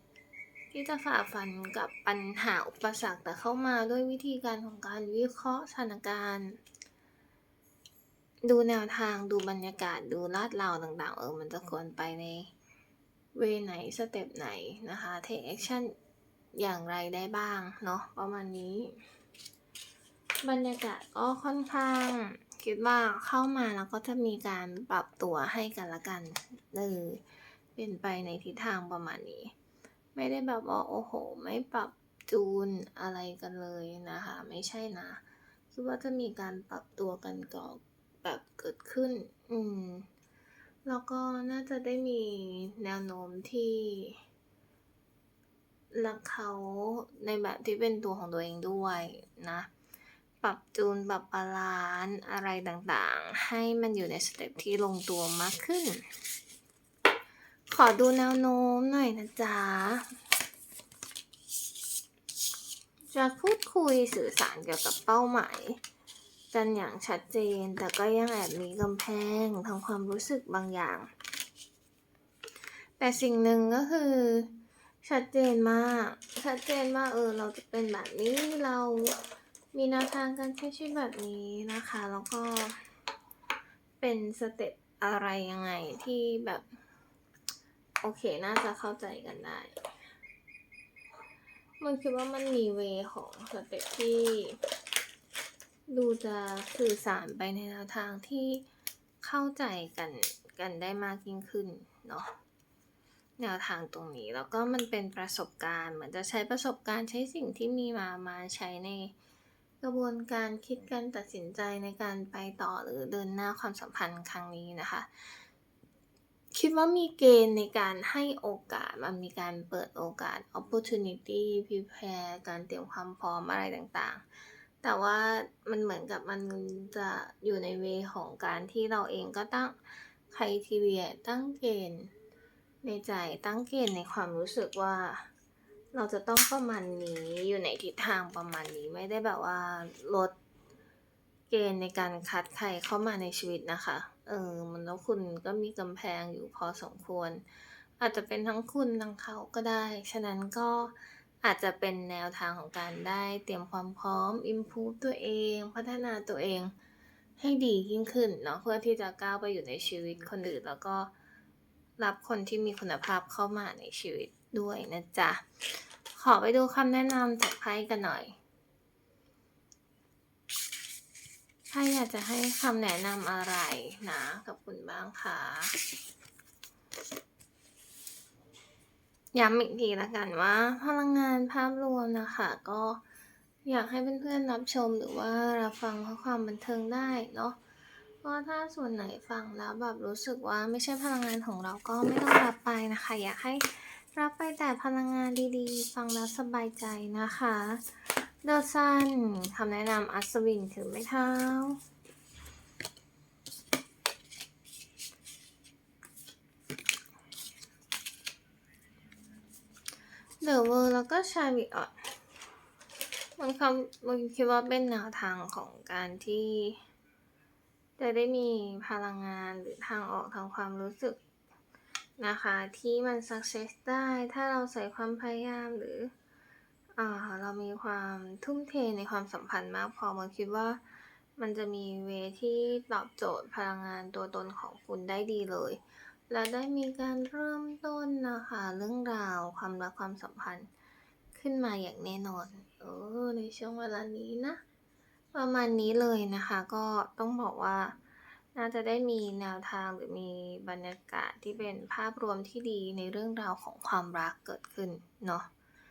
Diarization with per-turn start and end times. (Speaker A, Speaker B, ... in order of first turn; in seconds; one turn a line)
Speaker A: 0.7-6.6
Speaker A: 8.4-12.5
Speaker A: 13.3-15.9
Speaker A: 16.6-18.9
Speaker A: 20.4-27.2
Speaker A: 27.8-29.5
Speaker A: 30.1-40.1
Speaker A: 40.9-44.2
Speaker A: 45.9-49.7
Speaker A: 50.4-56.0
Speaker A: 57.7-60.1
Speaker A: 63.1-65.8
Speaker A: 66.5-71.1
Speaker A: 73.0-79.2
Speaker A: 79.7-82.8
Speaker A: 84.0-86.7
Speaker A: 88.0-89.8
Speaker A: 91.8-94.6
Speaker A: 95.9-98.7
Speaker A: 99.2-102.3
Speaker A: 103.4-109.1
Speaker A: 109.8-115.3
Speaker A: 116.5-124.2
Speaker A: 124.8-129.8
Speaker A: 130.3-132.1
Speaker A: 132.8-135.3
Speaker A: 135.9-140.3
Speaker A: 141.5-147.4
Speaker A: 148.0-156.7
Speaker A: 157.4-161.1
Speaker A: 162.0-165.4
Speaker A: 166.1-168.4
Speaker A: 171.7-175.8
Speaker A: 179.3-183.0
Speaker A: 183.7-187.6
Speaker A: 188.2-201.8
Speaker A: 210.4-212.1
Speaker A: 213.4-216.8
Speaker A: 218.0-221.2
Speaker A: 222.2-226.1
Speaker A: 226.9-230.8
Speaker A: 231.4-240.7
Speaker A: 241.3-244.6
Speaker A: 245.3-248.0
Speaker A: 248.6-255.5